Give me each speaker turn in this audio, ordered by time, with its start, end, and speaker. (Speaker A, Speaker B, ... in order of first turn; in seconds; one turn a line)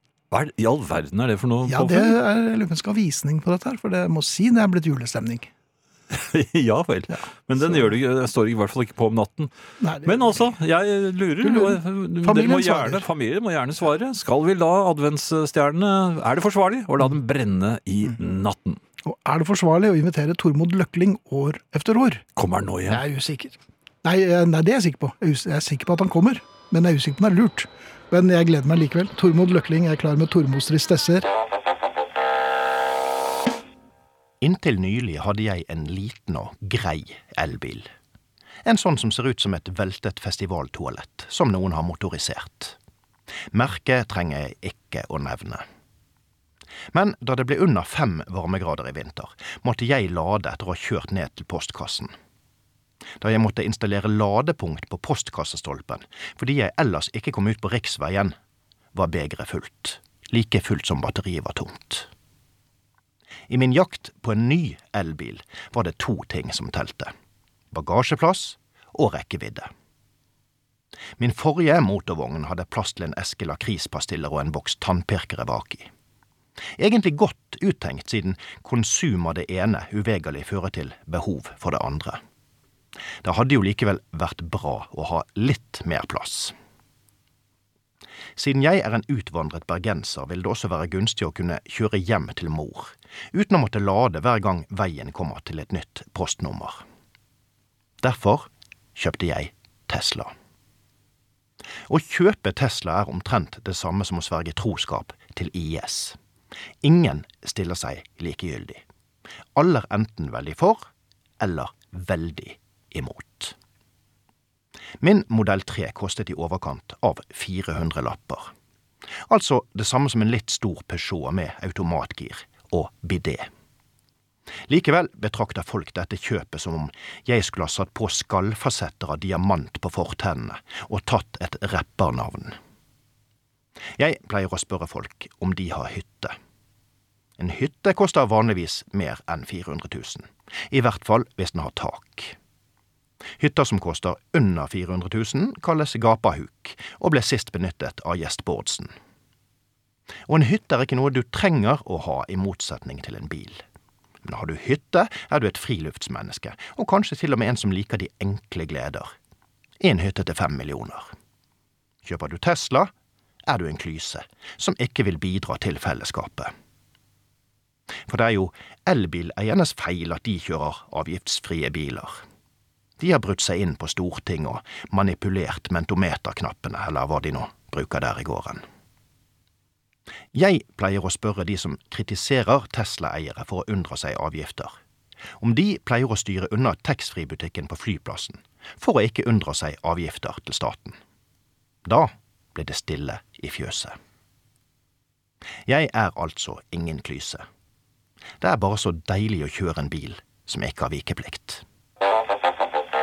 Speaker A: 0.3-2.2
Speaker B: 1.6-5.5
Speaker A: 6.1-9.5
Speaker B: 7.1-7.9
Speaker B: 9.8-10.5
Speaker A: 10.0-18.8
Speaker B: 11.4-13.1
Speaker B: 19.0-22.2
Speaker A: 22.4-23.0
Speaker B: 22.9-31.3
Speaker C: 34.4-37.9
Speaker C: 38.6-42.8
Speaker C: 43.5-45.6
Speaker C: 46.9-52.1
Speaker C: 53.2-58.3
Speaker C: 58.9-62.1
Speaker C: 63.5-67.1
Speaker C: 67.7-69.7
Speaker C: 71.2-75.9
Speaker C: 76.8-82.2
Speaker C: 83.2-86.5
Speaker C: 88.3-96.8
Speaker C: 98.0-100.3
Speaker C: 101.9-106.2
Speaker C: 106.8-108.8
Speaker C: 109.5-110.8
Speaker C: 111.4-113.5
Speaker C: 115.0-118.5
Speaker C: 119.3-123.5
Speaker C: 124.7-132.5
Speaker C: 134.0-136.3
Speaker C: 137.4-142.3
Speaker C: 143.4-148.9
Speaker C: 150.3-153.6
Speaker C: 154.2-159.1
Speaker C: 159.8-161.1
Speaker C: 162.0-162.9
Speaker C: 163.5-166.5
Speaker C: 168.1-172.2
Speaker C: 173.0-178.6
Speaker C: 180.3-184.7
Speaker C: 185.4-191.0
Speaker C: 191.8-193.9
Speaker C: 195.7-197.4
Speaker C: 198.4-201.6